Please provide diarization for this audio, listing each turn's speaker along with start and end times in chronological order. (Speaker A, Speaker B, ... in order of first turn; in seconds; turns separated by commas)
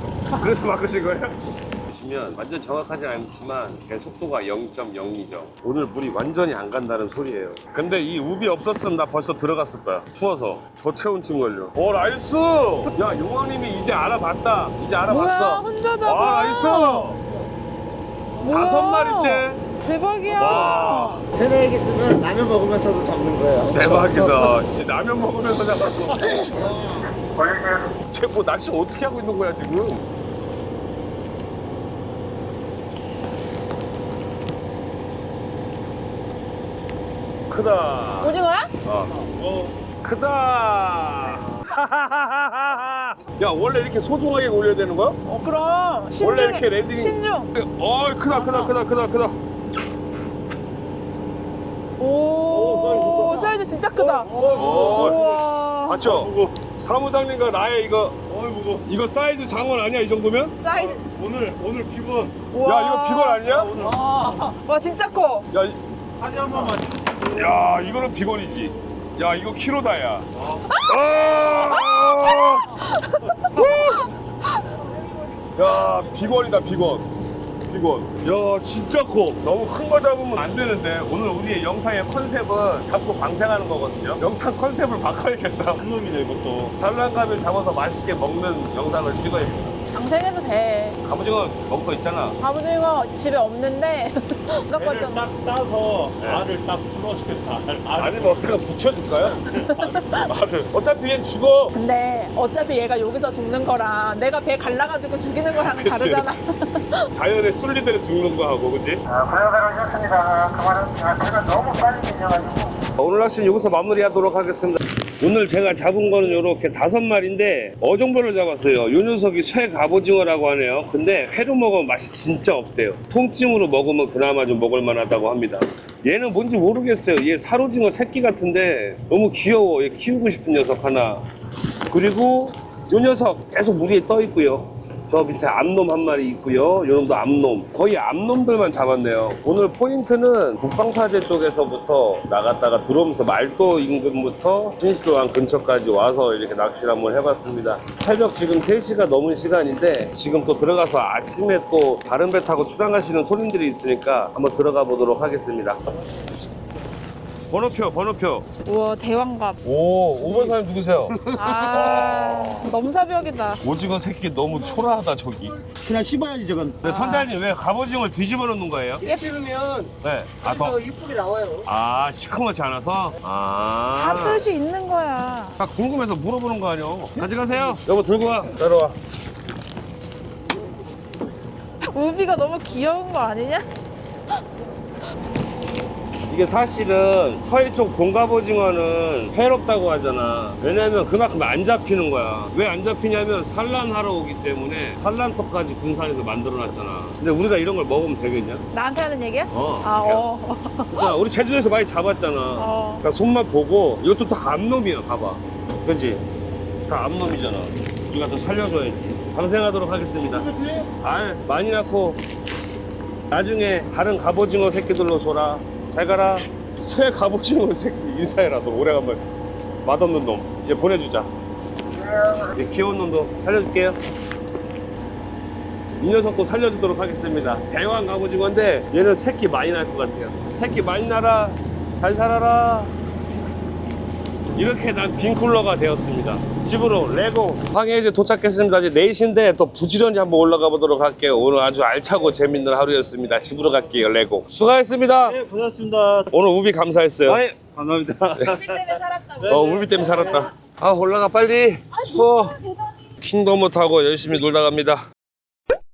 Speaker A: 0.3-17.2, Speaker B: 15.1-17.2, Speaker B: 18.4-21.3, Speaker A: 18.4-19.6, Speaker A: 20.3-21.3, Speaker C: 21.3-24.5, Speaker A: 23.7-30.0, Speaker C: 26.3-27.2, Speaker A: 37.5-39.2, Speaker B: 38.2-38.7, Speaker A: 40.0-45.2, Speaker B: 45.2-47.5, Speaker A: 46.2-49.4, Speaker B: 48.3-48.7, Speaker B: 52.0-56.0, Speaker A: 52.5-53.3, Speaker D: 52.8-53.3, Speaker D: 54.0-55.5, Speaker A: 54.5-55.3, Speaker A: 55.9-58.2, Speaker D: 56.0-56.5, Speaker D: 58.3-58.9, Speaker A: 58.9-60.6, Speaker B: 60.5-61.1, Speaker D: 60.8-62.4, Speaker B: 62.5-65.5, Speaker A: 62.6-63.9, Speaker D: 63.5-64.3, Speaker A: 65.5-65.8, Speaker D: 66.2-67.6, Speaker A: 66.5-70.3, Speaker A: 70.8-72.7, Speaker B: 72.2-74.8, Speaker A: 75.5-77.1, Speaker D: 75.6-76.0, Speaker A: 77.7-85.9, Speaker D: 85.8-86.7, Speaker A: 86.7-89.8, Speaker B: 89.9-91.0, Speaker A: 91.0-92.4, Speaker B: 92.4-95.3, Speaker D: 94.7-98.5, Speaker A: 96.2-96.5, Speaker A: 98.0-99.5, Speaker B: 99.4-100.3, Speaker D: 99.7-100.1, Speaker A: 100.2-101.7, Speaker B: 101.7-107.1, Speaker A: 105.5-106.3, Speaker A: 107.1-109.0, Speaker E: 109.1-112.8, Speaker A: 113.0-131.2, Speaker A: 131.9-155.8, Speaker A: 157.5-158.5, Speaker B: 158.7-159.6, Speaker A: 159.6-162.5, Speaker B: 161.3-163.6, Speaker A: 163.6-165.6, Speaker C: 165.7-166.8, Speaker B: 166.8-167.3, Speaker A: 166.8-169.1, Speaker B: 169.0-169.3, Speaker C: 169.0-169.9, Speaker A: 170.0-170.8, Speaker C: 170.4-171.7, Speaker A: 171.7-174.5, Speaker B: 173.9-175.6, Speaker A: 175.6-179.0, Speaker B: 181.9-183.7, Speaker A: 186.3-198.7, Speaker B: 198.7-201.2, Speaker A: 199.5-200.3, Speaker A: 200.9-206.2, Speaker B: 202.6-203.1, Speaker A: 206.9-212.2, Speaker A: 213.3-219.2, Speaker A: 219.8-221.3, Speaker A: 222.0-224.0, Speaker A: 226.0-232.9, Speaker A: 234.6-245.4, Speaker D: 245.2-246.3, Speaker A: 246.3-247.4, Speaker D: 247.5-248.5, Speaker A: 248.3-252.6, Speaker B: 248.6-250.5, Speaker D: 249.4-250.2, Speaker B: 252.0-252.9, Speaker A: 253.2-255.0